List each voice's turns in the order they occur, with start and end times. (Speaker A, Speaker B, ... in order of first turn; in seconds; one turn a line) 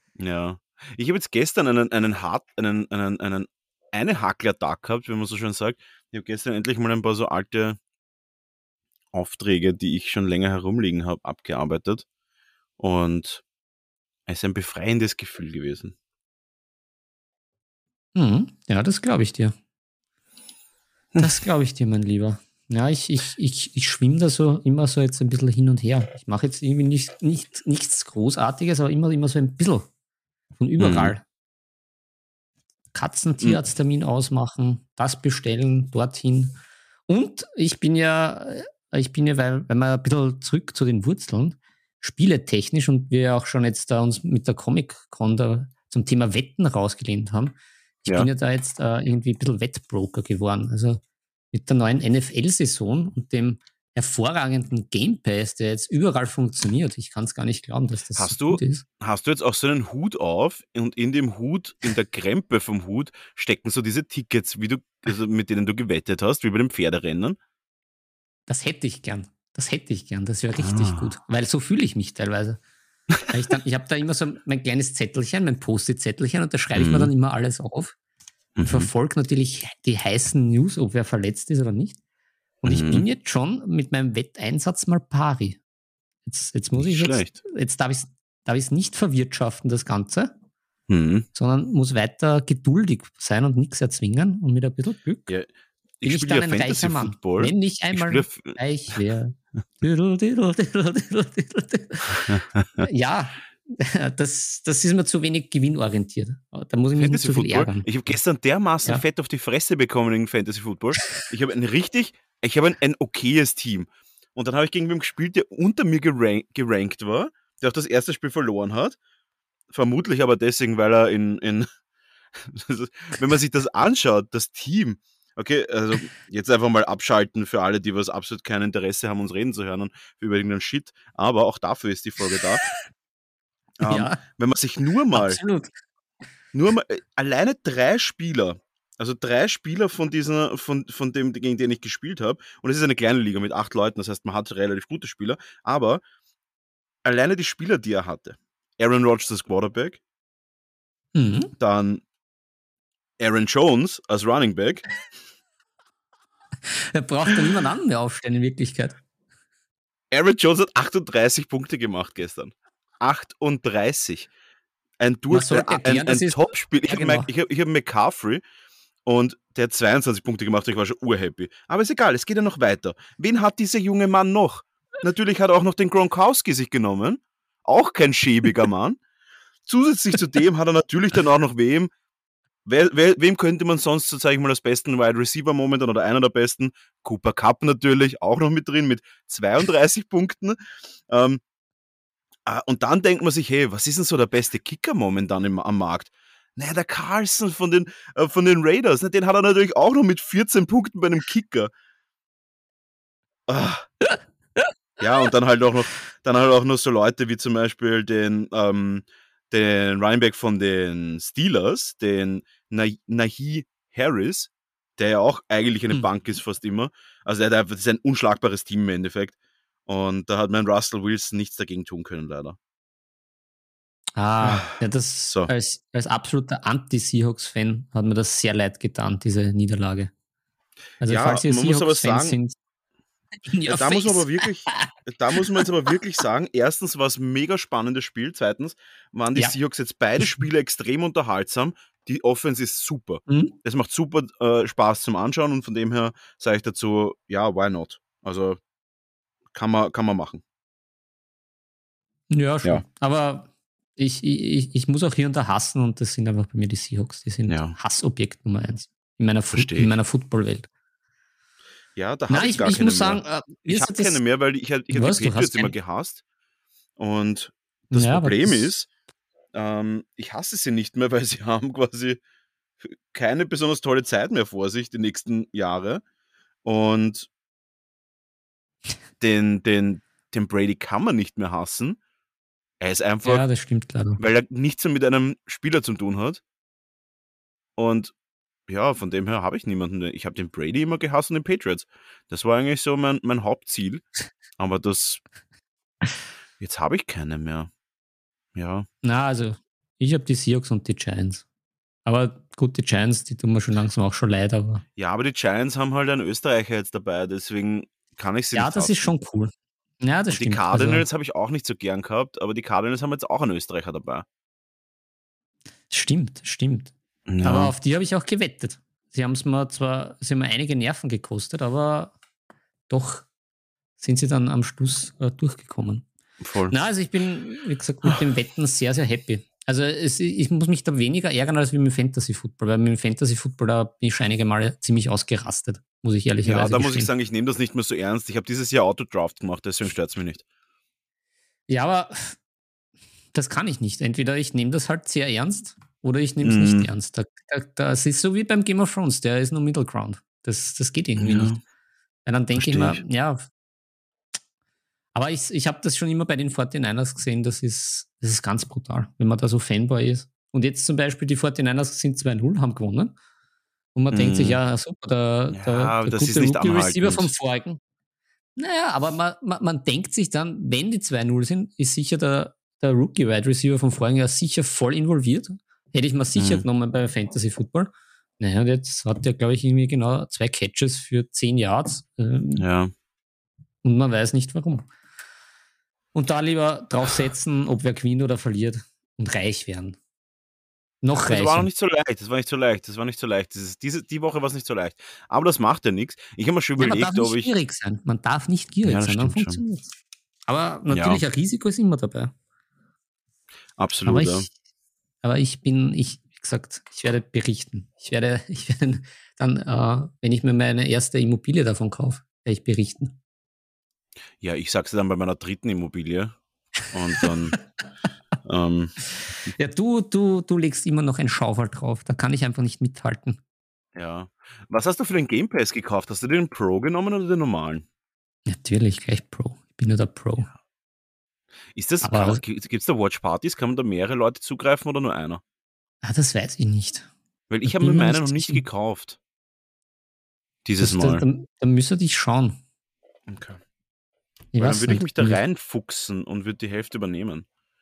Speaker A: 0.2-7.8
Speaker A: 9.1-12.1
Speaker A: 12.8-13.4
Speaker A: 14.3-15.9
Speaker B: 18.1-19.5
Speaker B: 21.2-29.9
Speaker B: 30.6-31.2
Speaker A: 30.8-31.2
Speaker B: 32.9-36.5
Speaker B: 37.1-51.0
Speaker B: 51.5-58.9
Speaker A: 58.1-67.4
Speaker B: 68.5-72.6
Speaker A: 70.6-71.1
Speaker B: 73.3-78.0
Speaker A: 76.8-77.1
Speaker A: 78.6-78.9
Speaker B: 78.6-82.0
Speaker B: 82.6-85.6
Speaker A: 82.7-83.0
Speaker B: 86.3-90.3
Speaker A: 86.8-87.4
Speaker A: 90.9-91.3
Speaker B: 91.3-95.3
Speaker A: 96.0-98.6
Speaker B: 96.0-107.9
Speaker A: 102.3-102.9
Speaker A: 107.0-119.0
Speaker A: 119.7-121.7
Speaker A: 122.4-132.7
Speaker A: 133.8-135.4
Speaker B: 133.9-134.2
Speaker B: 135.1-135.7
Speaker A: 136.5-146.0
Speaker A: 147.0-150.0
Speaker B: 151.2-151.5
Speaker A: 151.6-152.0
Speaker A: 153.2-154.8
Speaker B: 156.7-159.0
Speaker A: 160.1-164.3
Speaker A: 165.0-168.4
Speaker B: 165.3-167.3
Speaker A: 169.1-179.0
Speaker A: 179.7-181.9
Speaker A: 182.7-190.6
Speaker A: 191.1-191.4
Speaker A: 192.5-201.7
Speaker A: 203.5-203.9
Speaker A: 205.0-222.6
Speaker B: 224.2-230.1
Speaker A: 224.4-224.8
Speaker B: 231.0-232.6
Speaker A: 231.1-232.4
Speaker B: 233.5-235.6
Speaker A: 233.7-248.6
Speaker B: 243.3-243.6
Speaker A: 249.5-250.4
Speaker B: 252.3-260.7
Speaker A: 257.5-257.8
Speaker A: 259.5-259.9
Speaker A: 262.0-266.2
Speaker B: 262.3-264.2
Speaker B: 264.9-265.8
Speaker A: 267.0-268.9
Speaker B: 267.9-268.7
Speaker A: 269.5-272.2
Speaker A: 272.8-276.0
Speaker A: 276.6-277.3
Speaker A: 279.2-282.0
Speaker A: 282.8-283.4
Speaker B: 283.2-284.2
Speaker A: 284.2-286.4
Speaker A: 287.8-288.1
Speaker A: 288.7-294.1
Speaker A: 294.6-295.2
Speaker A: 296.6-297.7
Speaker A: 298.6-298.9
Speaker B: 299.0-301.4
Speaker B: 302.1-304.8
Speaker A: 305.0-309.1
Speaker B: 308.5-311.1
Speaker A: 310.3-314.3
Speaker B: 315.9-322.1
Speaker A: 317.3-317.7
Speaker B: 322.9-323.3
Speaker B: 324.0-326.1
Speaker A: 326.4-326.7
Speaker B: 326.7-337.1
Speaker A: 336.4-340.4
Speaker B: 341.7-342.4
Speaker B: 343.3-351.6
Speaker A: 346.4-346.9
Speaker A: 351.2-351.6
Speaker B: 352.3-353.4
Speaker A: 352.6-353.0
Speaker B: 355.1-363.1
Speaker B: 363.9-367.8
Speaker A: 364.1-364.6
Speaker A: 365.5-367.3
Speaker B: 368.6-382.6
Speaker A: 376.4-376.6
Speaker A: 382.6-382.9
Speaker B: 383.8-384.9
Speaker B: 386.1-390.0
Speaker B: 391.0-391.7
Speaker A: 391.2-397.5
Speaker B: 396.8-399.9
Speaker A: 398.9-399.6
Speaker B: 400.5-402.3
Speaker A: 400.9-401.2
Speaker A: 403.8-404.5
Speaker B: 404.1-404.5
Speaker B: 405.2-413.1
Speaker A: 414.4-416.4
Speaker A: 416.9-417.6
Speaker A: 418.4-419.0
Speaker B: 419.5-423.4
Speaker A: 423.9-427.9
Speaker B: 428.5-430.5
Speaker A: 431.8-435.4
Speaker B: 432.0-432.4
Speaker B: 436.0-437.1
Speaker A: 437.5-439.2
Speaker B: 437.6-438.6
Speaker A: 440.6-441.2
Speaker B: 440.8-442.6
Speaker A: 443.3-443.6
Speaker B: 444.5-445.4
Speaker A: 444.6-447.5